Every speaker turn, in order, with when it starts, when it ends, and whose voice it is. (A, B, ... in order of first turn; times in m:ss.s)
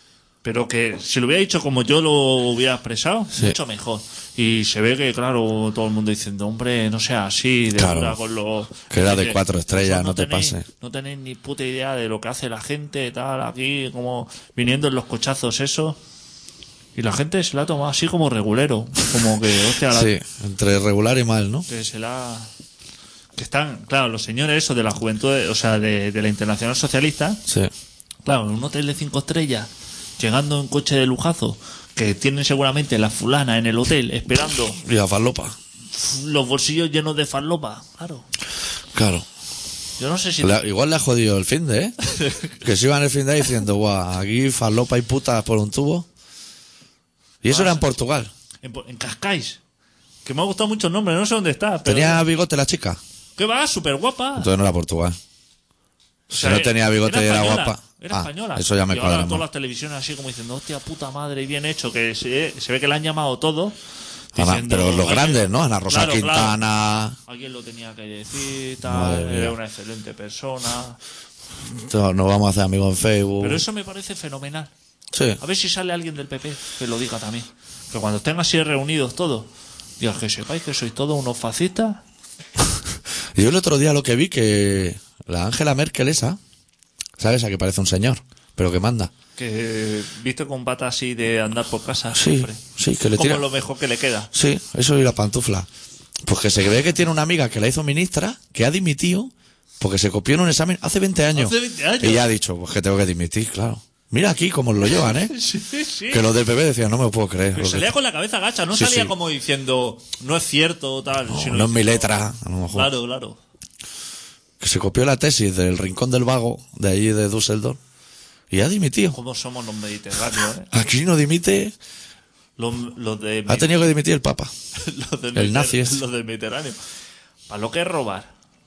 0:00.4-0:16.0 A
0:03.3-0:03.6 B
0:07.7-0:08.2 B
0:08.9-0:10.6 B
0:17.0-0:20.1 A
0:19.9-0:21.7 B
0:21.7-0:22.5 A
0:23.4-0:27.4 A
0:28.2-0:34.8 A
0:34.8-0:35.6 B
0:35.9-0:38.2 A
0:38.9-0:39.3 B
0:40.0-0:40.6 A
0:40.4-0:42.0 B
0:42.2-0:42.5 A
0:42.6-0:46.0 B
0:47.4-0:48.3 B
0:47.5-0:47.9 A
0:48.6-0:49.6 A
0:50.2-0:52.2 A
0:51.8-0:53.0 B
0:53.4-0:54.5 A
0:54.4-0:55.2 B
0:56.3-0:59.4 B
0:56.3-1:03.8 A
1:04.3-1:06.6 A
1:04.3-1:07.2 B
1:07.3-1:11.0 A
1:08.8-1:09.6 B
1:11.6-1:13.6 B
1:13.4-1:14.7 A
1:15.1-1:15.4 B
1:15.4-1:22.0 A
1:23.4-1:26.4 B
1:27.2-1:29.1 B
1:29.4-1:32.6 A
1:32.1-1:33.4 B
1:33.1-1:34.3 A
1:34.3-1:35.7 B
1:36.2-1:45.3 B
1:41.3-1:42.3 A
1:44.9-1:46.2 A
1:46.1-1:47.9 B
1:47.5-1:52.2 A
1:48.7-1:49.1 B
1:51.3-1:52.9 B
1:52.7-1:53.4 A
1:54.6-1:57.8 B
1:58.5-1:59.2 B
1:59.1-2:00.7 A
2:00.7-2:01.7 B
2:02.6-2:03.8 A
2:03.5-2:04.5 B
2:04.8-2:06.8 A
2:05.3-2:06.0 B
2:07.5-2:08.3 A